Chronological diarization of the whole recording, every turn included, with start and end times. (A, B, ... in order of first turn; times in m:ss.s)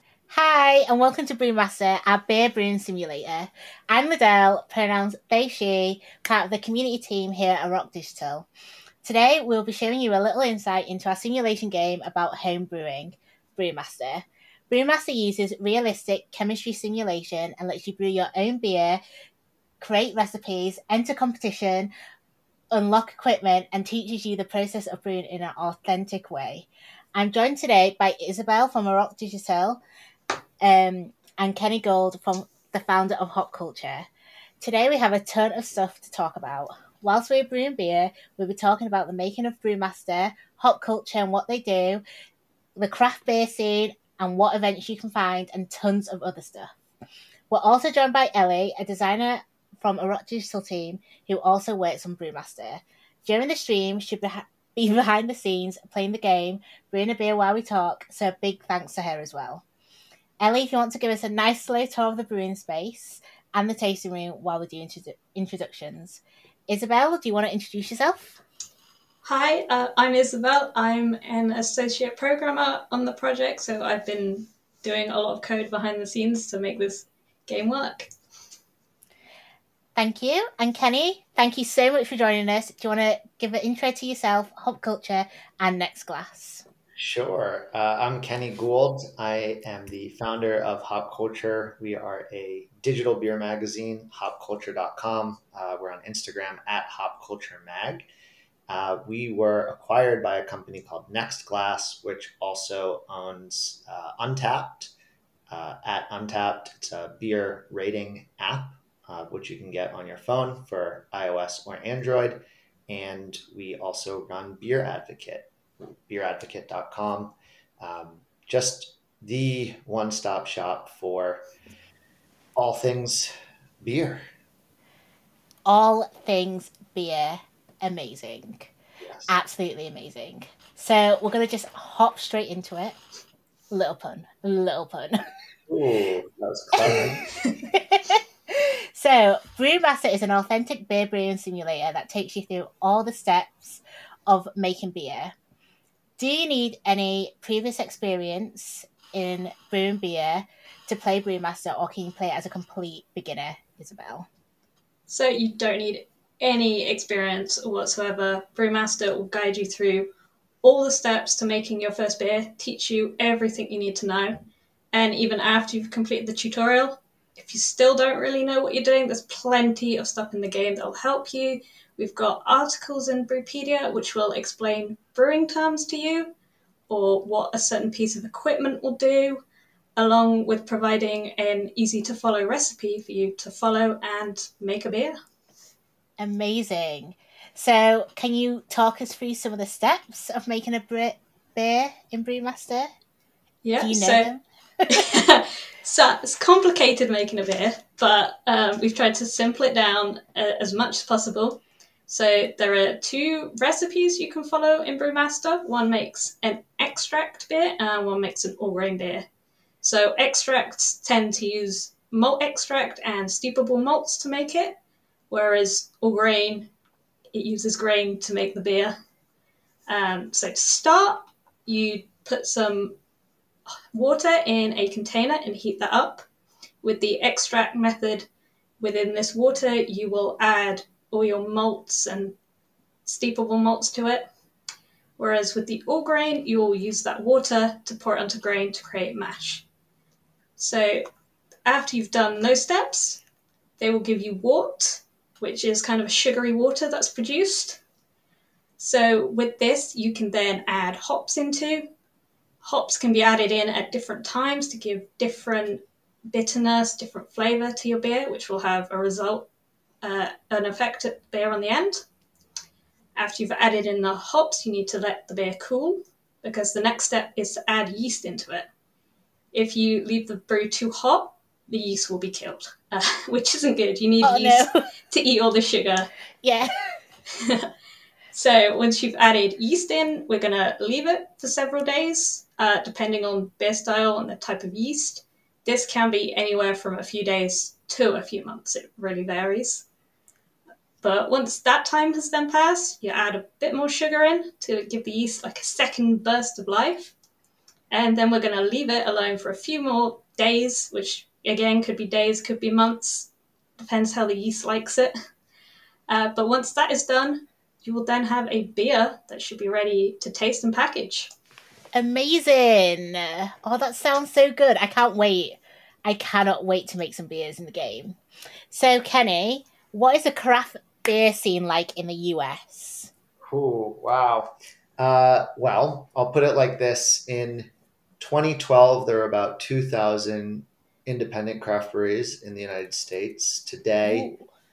0:00.3-0:08.5 A
0:09.0-0:19.0 A
0:19.8-0:21.9 A
0:22.7-0:29.8 A
0:30.6-0:34.1 A
0:34.6-0:42.0 A
0:42.8-0:46.7 A
0:47.5-0:59.6 A
1:00.4-1:08.4 A
1:09.2-1:18.1 B
1:20.0-1:26.6 A
1:27.0-1:38.1 C
1:38.7-1:44.9 C
1:45.5-1:55.5 C
1:56.1-2:01.4 C
2:02.6-2:04.2 C
2:05.6-2:08.7 A
2:09.0-2:09.4 C
2:09.3-2:13.0 A
2:13.7-2:15.2 A
2:15.7-2:17.3 C
2:16.7-2:25.3 A
2:26.2-2:34.3 A
2:35.1-2:40.1 B
2:40.6-2:56.3 B
2:56.9-2:59.4 B
3:00.0-3:05.1 B
3:06.2-3:12.9 A
3:13.6-3:14.3 B
3:13.8-3:14.4 A
3:14.9-3:29.2 B
3:29.8-3:34.8 B
3:35.3-3:36.7 B
3:37.3-3:39.0 B
3:39.9-3:43.0 B
3:43.9-3:46.2 B
3:46.8-3:48.3 B
3:48.8-3:52.4 B
3:53.0-3:54.2 B
3:55.2-3:59.6 B
4:00.6-4:01.0 B
4:01.6-4:03.2 B
4:03.8-4:07.8 B
4:08.8-4:11.9 B
4:12.6-4:19.5 B
4:20.0-4:22.0 B
4:23.2-4:28.6 B
4:29.5-4:36.1 B
4:34.2-4:34.7 A
4:36.4-4:36.7 A
4:37.4-4:37.7 B
4:38.3-4:49.8 B
4:51.0-4:57.1 B
4:57.9-5:05.1 B
5:06.1-5:11.3 B
5:11.9-5:18.2 A
5:18.7-5:23.1 A
5:23.5-5:34.3 C
5:34.0-5:34.5 A